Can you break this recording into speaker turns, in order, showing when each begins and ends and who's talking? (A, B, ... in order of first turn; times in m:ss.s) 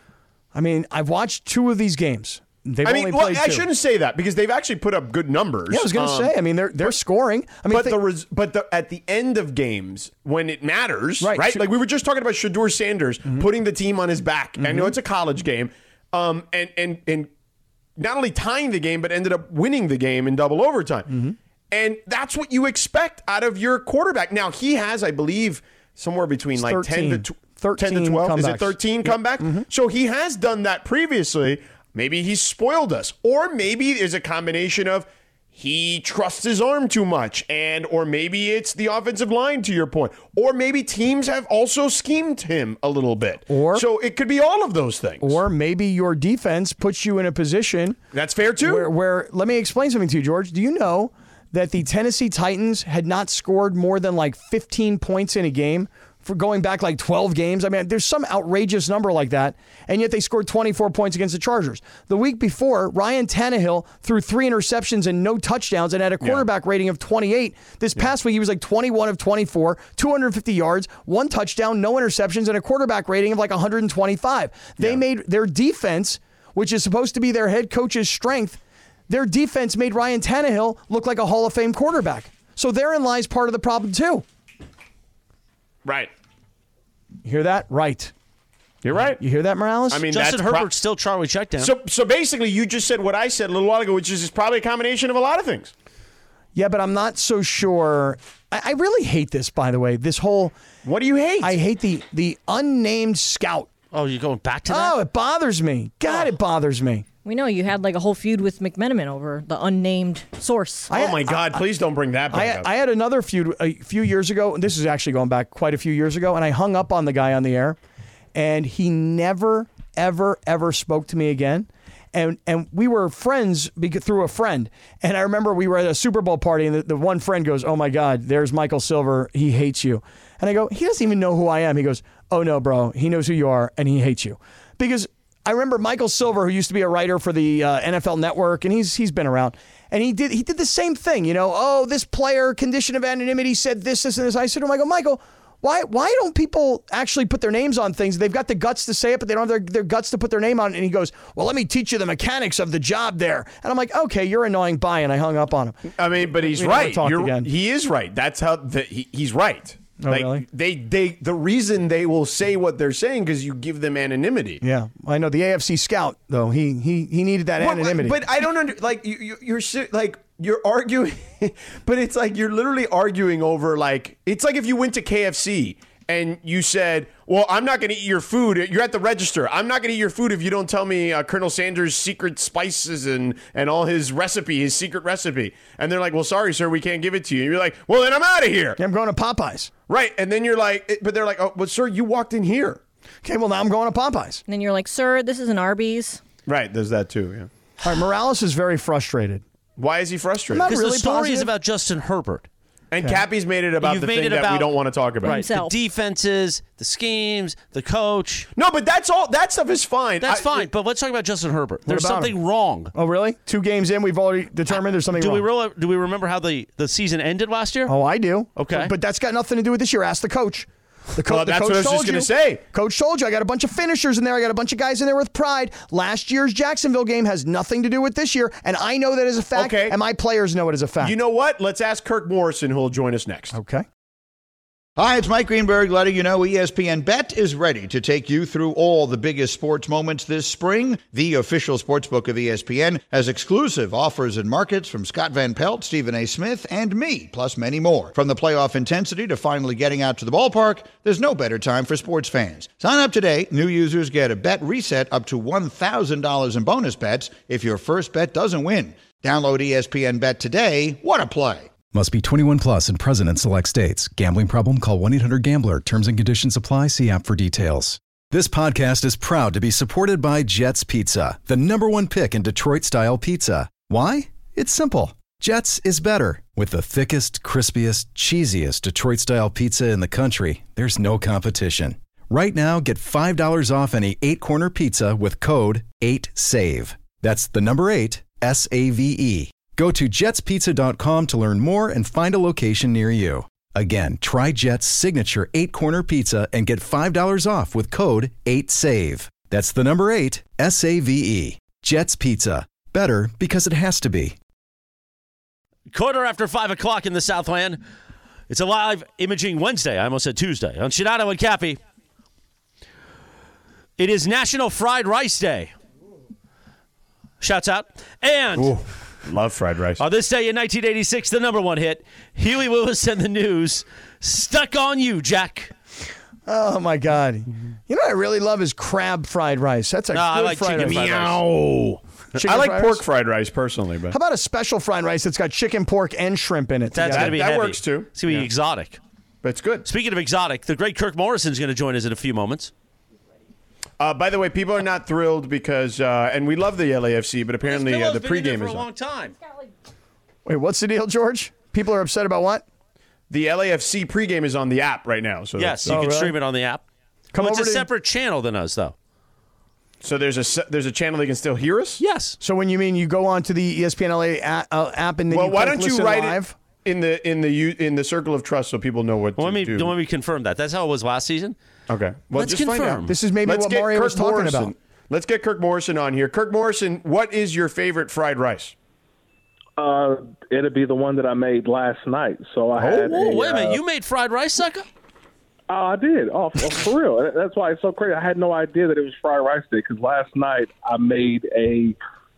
0:00.5-0:03.7 A
0:02.8-0:06.9 B
0:05.7-0:08.0 A
0:07.7-0:17.3 B
0:11.2-0:11.7 A
0:14.6-0:15.0 A
0:18.0-0:21.1 B
0:21.1-0:21.4 A
0:21.7-0:45.4 B
0:26.6-0:29.7 A
0:43.5-0:43.8 A
0:45.2-0:48.0 A
0:48.1-0:48.9 B
0:48.6-1:24.2 A
1:06.2-1:06.5 B
1:25.8-1:26.1 B
1:27.2-1:28.1 A
1:28.8-1:29.2 B
1:29.2-1:30.1 A
1:29.9-1:30.7 B
1:30.1-1:31.7 C
1:31.6-1:35.7 B
1:36.6-1:40.6 A
1:40.8-1:41.6 B
1:41.4-1:43.7 A
1:43.9-1:45.0 C
1:44.7-1:47.0 A
1:47.2-1:50.9 D
1:50.9-1:51.6 A
1:50.9-1:52.7 B
1:52.3-1:57.8 A
1:58.3-2:37.5 A
2:35.9-2:44.6 B
2:40.0-2:40.5 A
2:44.6-2:48.2 A
2:47.6-3:08.8 B
3:08.8-3:09.7 A
3:09.9-3:12.8 B
3:13.2-3:14.4 A
3:14.5-3:16.2 D
3:16.5-3:17.5 B
3:17.8-3:19.4 A
3:19.8-3:20.7 B
3:20.5-3:21.5 A
3:20.6-3:22.5 C
3:22.9-3:25.4 B
3:23.8-3:28.5 C
3:25.2-3:25.7 D
3:28.6-3:30.7 B
3:30.2-3:32.9 C
3:31.9-3:32.3 A
3:32.9-3:35.5 A
3:35.2-3:37.9 C
3:37.9-3:51.2 A
3:38.6-3:38.9 C
3:41.3-3:42.6 B
3:49.5-3:50.0 B
3:51.0-3:53.6 B
3:53.5-3:53.9 A
3:55.0-4:21.7 E
4:21.9-5:04.4 F
5:05.9-5:07.8 C
5:08.5-5:11.8 C
5:14.0-5:15.7 C
5:17.4-5:18.7 C
5:18.6-5:20.0 B
5:20.0-5:25.7 C
5:26.5-5:31.0 A
5:30.1-5:31.6 C
5:30.8-5:34.2 B
5:32.4-5:33.0 A
5:34.1-5:37.4 A
5:36.9-5:39.0 C
5:37.0-5:38.5 B
5:39.4-5:39.9 B
5:39.9-5:42.7 C
5:44.0-5:48.9 B
5:47.6-5:49.4 C
5:50.5-5:52.6 A
5:53.3-5:56.1 B
5:55.6-5:56.8 C
5:55.9-5:56.4 A
5:57.3-5:57.9 A
5:57.4-5:59.0 C
6:00.0-6:02.0 B
6:02.0-6:02.4 C
6:02.4-6:06.6 A
6:05.3-6:09.9 B
6:09.4-6:11.6 C
6:11.9-6:18.7 B
6:12.3-6:13.1 C
6:13.1-6:14.7 A
6:19.8-6:23.8 G
6:22.8-6:24.9 C
6:25.7-6:32.0 G